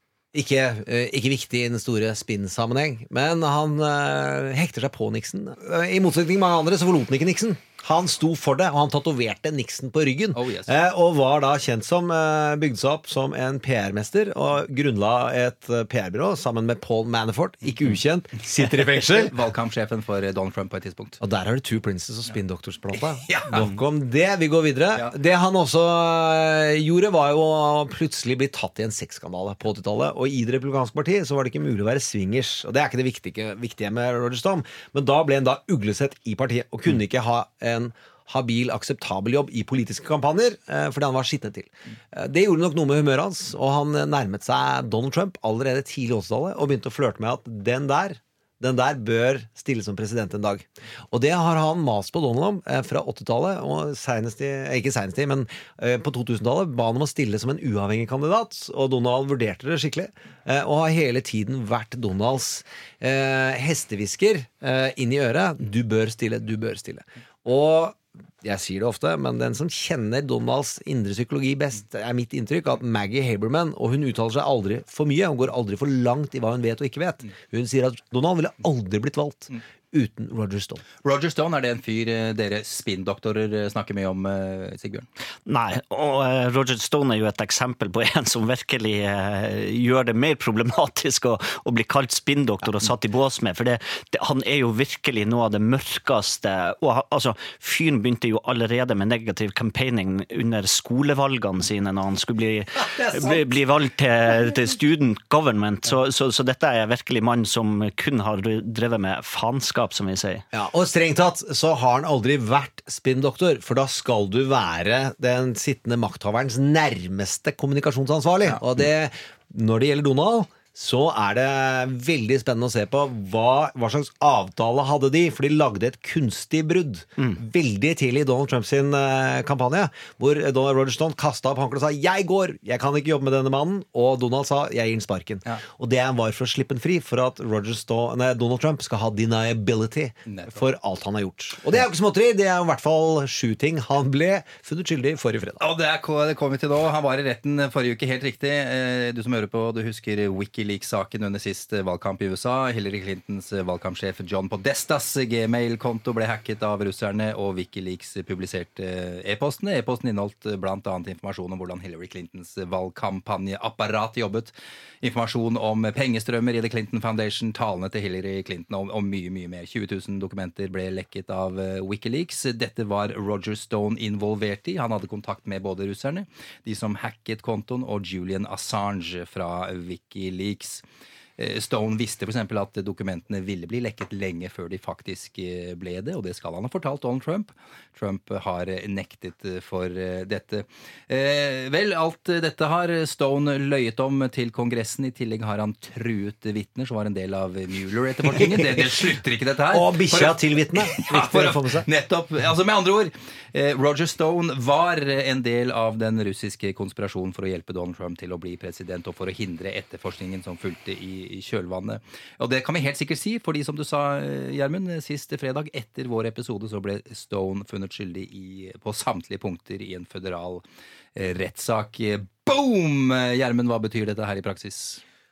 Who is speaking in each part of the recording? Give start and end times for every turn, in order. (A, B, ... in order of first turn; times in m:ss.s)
0:00.3-0:19.3 A
0:10.4-0:10.7 B
0:19.0-0:21.2 B
0:21.2-1:20.8 A
0:23.2-0:23.6 B
1:21.0-1:25.1 B
1:25.4-1:50.4 C
1:43.0-1:43.3 B
1:50.5-2:25.6 A
2:20.3-2:20.6 B
2:25.6-3:00.8 B
3:01.4-3:40.6 B
3:18.2-3:19.1 A
3:19.7-3:21.8 A
3:41.1-3:45.0 B